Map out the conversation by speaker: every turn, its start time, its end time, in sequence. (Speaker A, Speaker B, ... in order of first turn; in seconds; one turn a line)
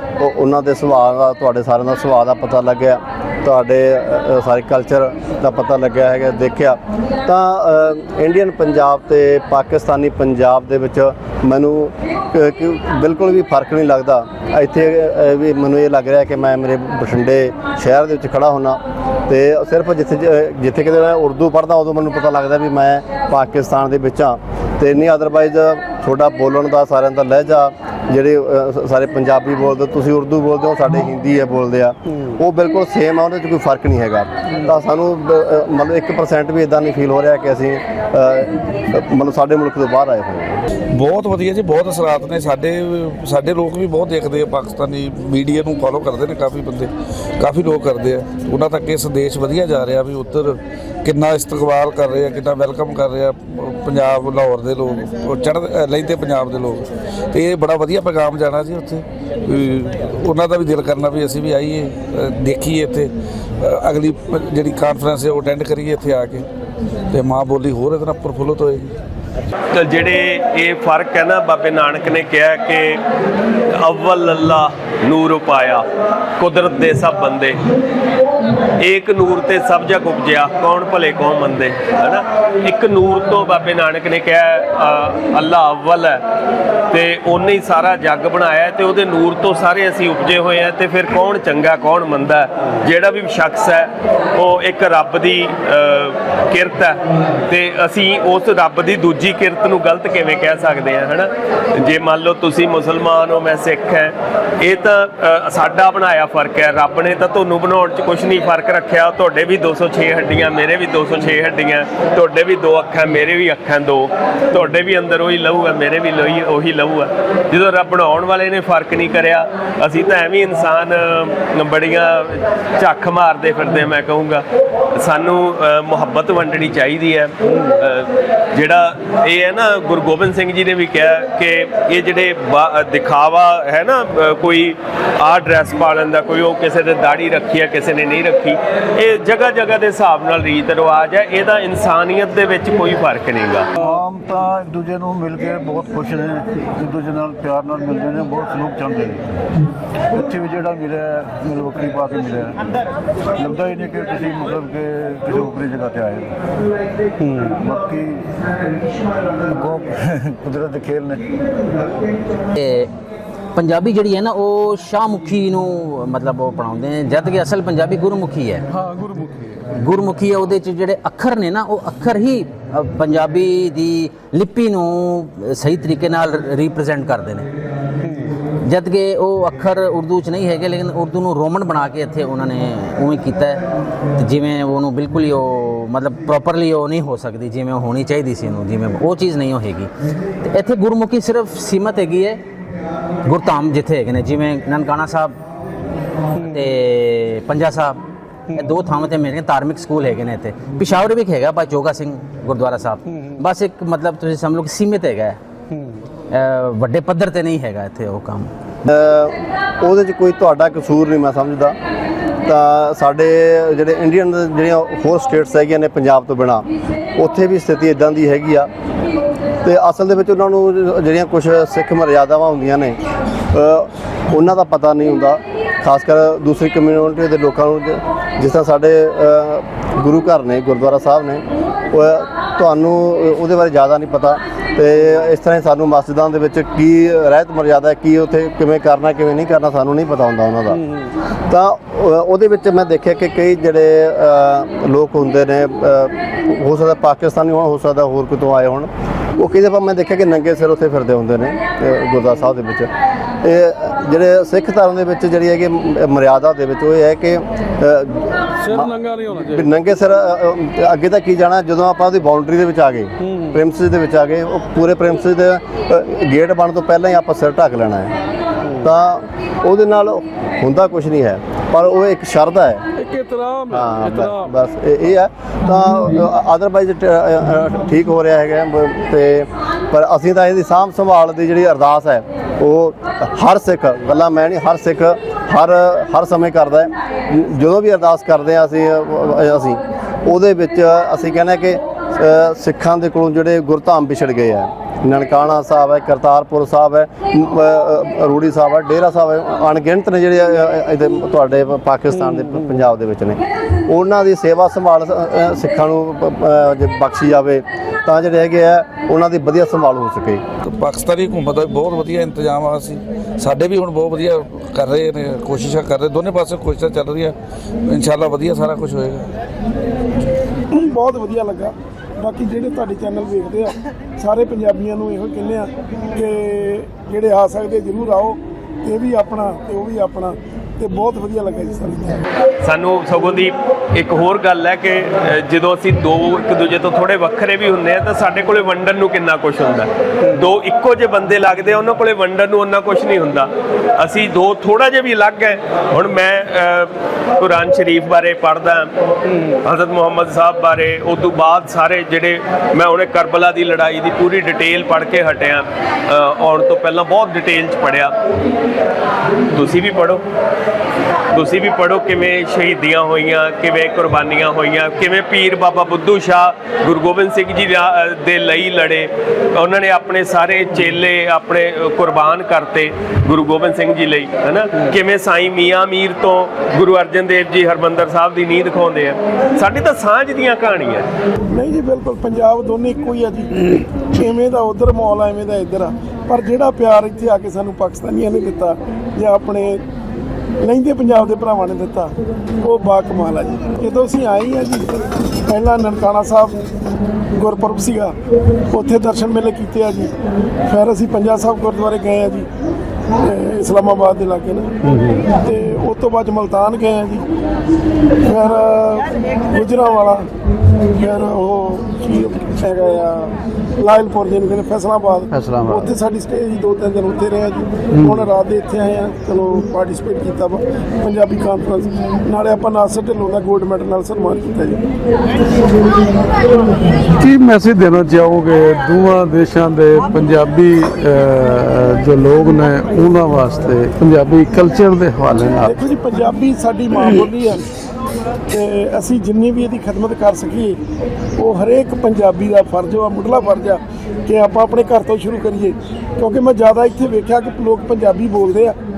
Speaker A: 0.2-40.6
Speaker B: 40.9-63.1
Speaker B: 63.6-66.5
Speaker B: 67.1-68.9
Speaker C: 69.7-73.0
Speaker C: 73.8-75.8
Speaker C: 76.4-77.6
Speaker C: 78.8-86.2
Speaker C: 86.9-124.4
Speaker C: 125.0-143.7
Speaker D: 143.8-149.4
Speaker D: 150.1-152.7
Speaker D: 153.3-156.4
Speaker E: 157.2-157.5
Speaker D: 157.5-158.3
Speaker D: 159.3-161.2
Speaker F: 162.5-162.9
Speaker F: 163.6-168.6
Speaker E: 168.7-169.7
Speaker F: 169.8-177.5
Speaker E: 178.0-178.3
Speaker F: 178.6-183.6
Speaker F: 184.2-189.9
Speaker F: 190.5-192.4
Speaker F: 193.2-195.4
Speaker F: 196.3-198.0
Speaker F: 198.5-205.4
Speaker E: 203.1-203.4
Speaker E: 205.7-206.0
Speaker F: 206.3-208.5
Speaker A: 208.8-211.8
Speaker A: 212.4-216.6
Speaker A: 217.2-218.7
Speaker A: 219.6-223.0
Speaker A: 223.5-240.8
Speaker A: 241.5-252.9
Speaker A: 253.4-258.9
Speaker E: 258.6-259.8
Speaker A: 259.4-268.1
Speaker E: 263.2-263.6
Speaker E: 268.6-268.9
Speaker A: 268.8-272.8
Speaker E: 272.9-274.5
Speaker A: 273.7-310.4
Speaker B: 310.6-319.3
Speaker G: 320.7-332.2
Speaker C: 332.6-358.1
Speaker C: 359.5-360.2
Speaker C: 361.3-381.0
Speaker G: 381.5-389.8
Speaker G: 390.6-394.9
Speaker G: 395.5-396.6
Speaker G: 397.3-398.2
Speaker G: 398.7-400.1
Speaker G: 400.7-402.5
Speaker G: 403.2-404.7
Speaker E: 404.9-405.2
Speaker G: 405.2-407.3
Speaker G: 408.2-410.3
Speaker G: 410.9-424.8
Speaker E: 415.5-415.8
Speaker E: 427.1-435.8
Speaker G: 435.6-437.6
Speaker G: 438.5-440.8
Speaker G: 441.4-448.8